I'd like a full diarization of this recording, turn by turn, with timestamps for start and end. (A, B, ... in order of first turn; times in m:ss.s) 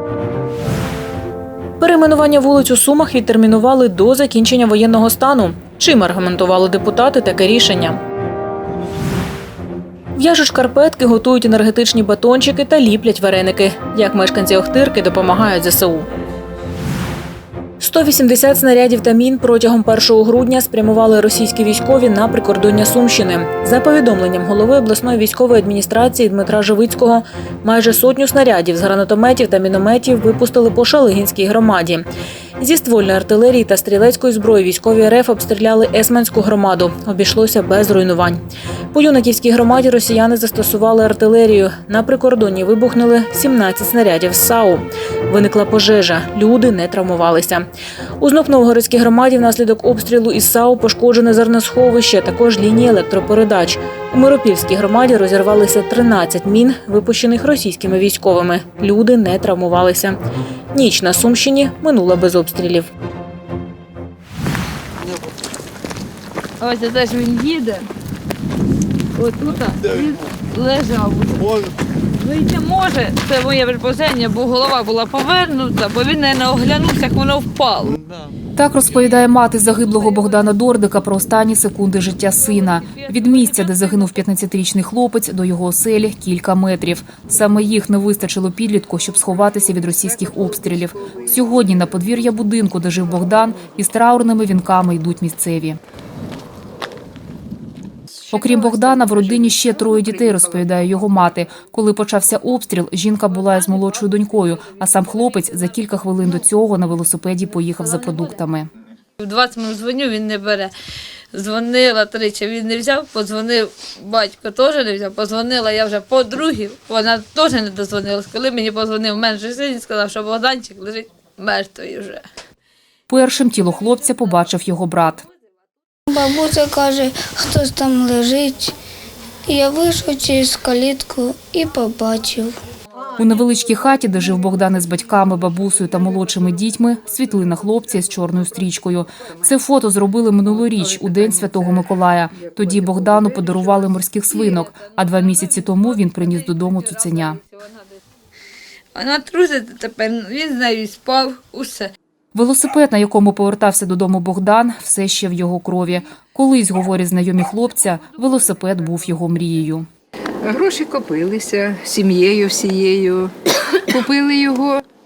0:01.8-0:08.0 A
0:10.2-0:16.1 A
0:17.8-0:32.1 A
0:32.6-0:38.4 A
0:38.9-0:47.7 A
0:48.2-1:00.2 A
1:00.7-1:02.9 A
1:06.6-1:07.8 B
1:09.2-1:11.4 B
1:12.2-1:17.9 B
1:18.6-1:35.8 C
1:23.1-1:23.5 B
1:38.3-1:48.7 C
1:49.2-1:50.7 B
1:51.3-2:02.2 B
2:03.1-2:05.2 C
2:06.1-2:08.8 D
2:09.5-2:12.6 D
2:13.2-2:27.4 C
2:28.9-2:31.9 B
2:32.4-2:39.9 C
2:40.5-2:43.3 E
2:43.9-2:44.8 E